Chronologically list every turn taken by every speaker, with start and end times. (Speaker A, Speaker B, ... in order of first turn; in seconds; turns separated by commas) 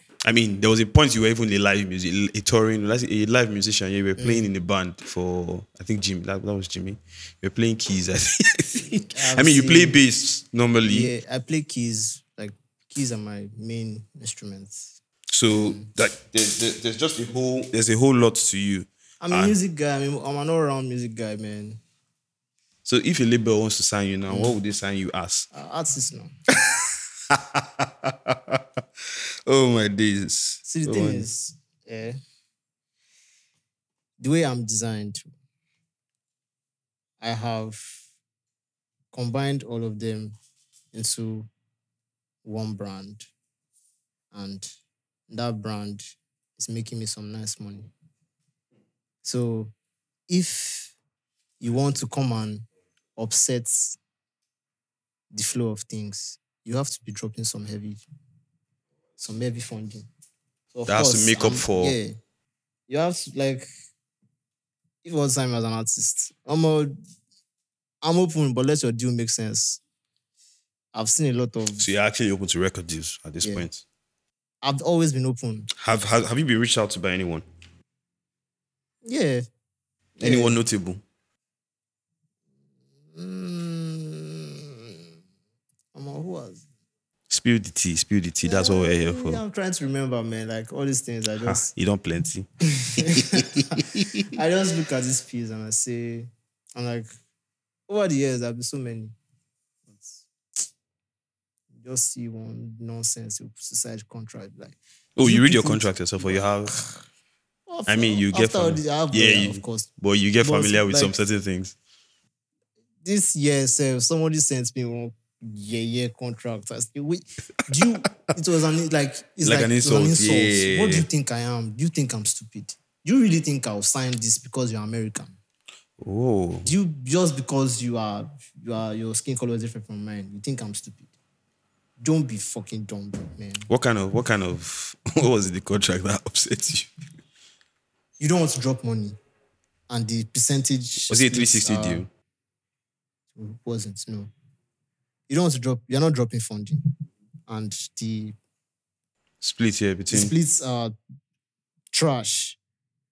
Speaker A: 0.2-11.1, Speaker B: 4.2-4.5, Speaker B: 9.1-10.0, Speaker B: 10.9-14.9, Speaker A: 15.3-19.5, Speaker B: 15.5-15.9, Speaker B: 19.2-21.8, Speaker A: 22.8-25.5, Speaker B: 24.3-24.6, Speaker B: 25.5-26.3, Speaker A: 26.5-28.8, Speaker A: 29.4-31.2, Speaker B: 30.6-32.1, Speaker B: 34.2-35.3, Speaker B: 37.2-38.0, Speaker B: 39.1-40.3, Speaker B: 40.9-41.5, Speaker B: 42.4-43.3, Speaker B: 44.3-44.7, Speaker B: 45.3-47.9, Speaker B: 49.2-49.7, Speaker B: 50.3-50.9, Speaker B: 51.6-52.6, Speaker B: 53.1-54.0, Speaker B: 55.3-58.0, Speaker B: 59.2-60.1, Speaker B: 60.7-62.1, Speaker A: 60.9-62.0, Speaker B: 62.9-63.7, Speaker B: 65.0-66.9, Speaker B: 68.0-69.8, Speaker B: 70.9-71.8, Speaker A: 71.8-73.8, Speaker B: 74.6-75.7, Speaker A: 75.7-77.4, Speaker B: 79.0-79.4, Speaker B: 80.2-80.6, Speaker A: 80.2-81.0, Speaker B: 83.1-85.0, Speaker B: 85.9-86.6, Speaker A: 87.3-89.4, Speaker B: 88.4-91.7, Speaker A: 91.4-94.3, Speaker B: 92.8-97.1, Speaker B: 97.9-99.1, Speaker B: 99.9-100.2, Speaker B: 101.8-106.8, Speaker A: 105.2-106.7, Speaker B: 107.7-109.9, Speaker A: 107.9-111.7, Speaker B: 110.4-111.1, Speaker B: 113.0-125.4, Speaker A: 117.8-118.1, Speaker A: 119.4-121.1, Speaker A: 126.0-126.7, Speaker B: 126.6-131.1, Speaker B: 132.0-133.7, Speaker A: 133.7-136.9, Speaker B: 138.2-139.2, Speaker B: 139.9-142.0, Speaker A: 141.1-142.1, Speaker B: 143.3-144.3, Speaker B: 145.3-146.8, Speaker B: 147.5-148.3, Speaker A: 149.4-150.3, Speaker B: 150.1-150.9, Speaker B: 151.9-152.6